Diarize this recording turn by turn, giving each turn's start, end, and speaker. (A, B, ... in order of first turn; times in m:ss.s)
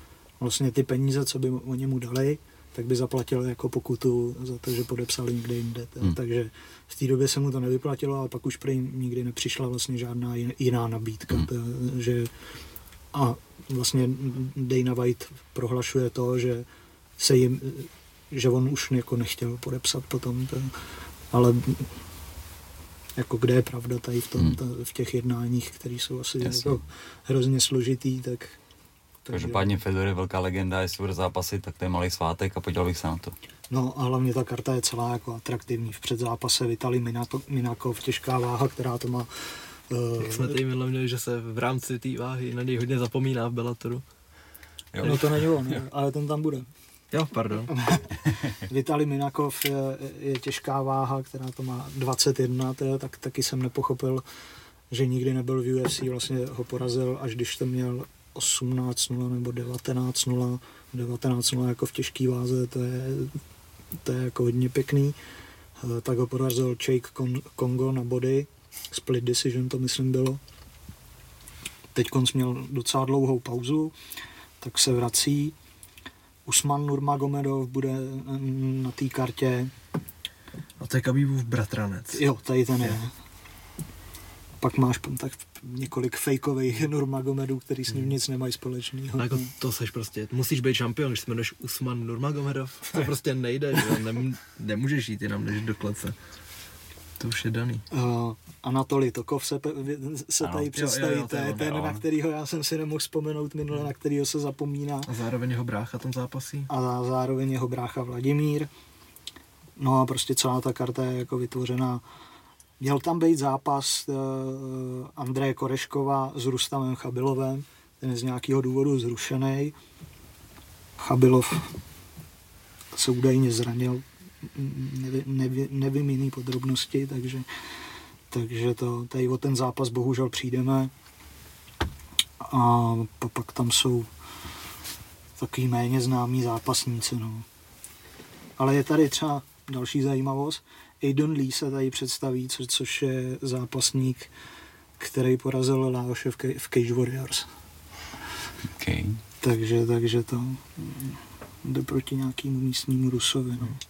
0:00.4-0:12.3 A
0:13.1-0:16.7 A
0:17.2-0:20.8 A
0:21.3-0:21.9 A
0:23.2-0:28.6 A
0:26.4-0:26.8 B
0:29.2-0:29.8 A
0:29.3-0:33.4 B
0:33.7-0:40.6 A
0:40.2-0:44.0 C
0:44.9-0:45.8 B
0:45.0-0:46.7 A
0:47.1-0:47.7 C
0:47.7-0:54.2 A
0:54.9-1:03.4 A
1:04.0-1:05.2 A
1:05.8-1:10.4 A
1:11.9-1:13.9 A
1:14.6-1:15.6 A
1:16.5-1:19.7 A
1:20.8-1:22.2 C
1:22.1-1:23.1 A
1:24.6-1:29.5 A
1:29.2-1:36.2 C
1:37.2-1:37.8 C
1:37.9-1:45.1 A
1:40.4-1:40.7 B
1:40.7-1:41.9 C
1:45.1-1:46.7 C
1:46.7-1:48.7 A
1:49.8-1:52.0 A
1:52.8-1:59.8 A
2:01.0-2:01.8 A
2:02.9-2:07.5 A
2:08.3-2:10.9 A
2:12.4-2:14.1 A
2:15.4-2:17.5 A
2:18.6-2:24.3 A
2:25.0-2:27.5 A
2:28.8-2:29.2 B
2:29.4-2:33.8 A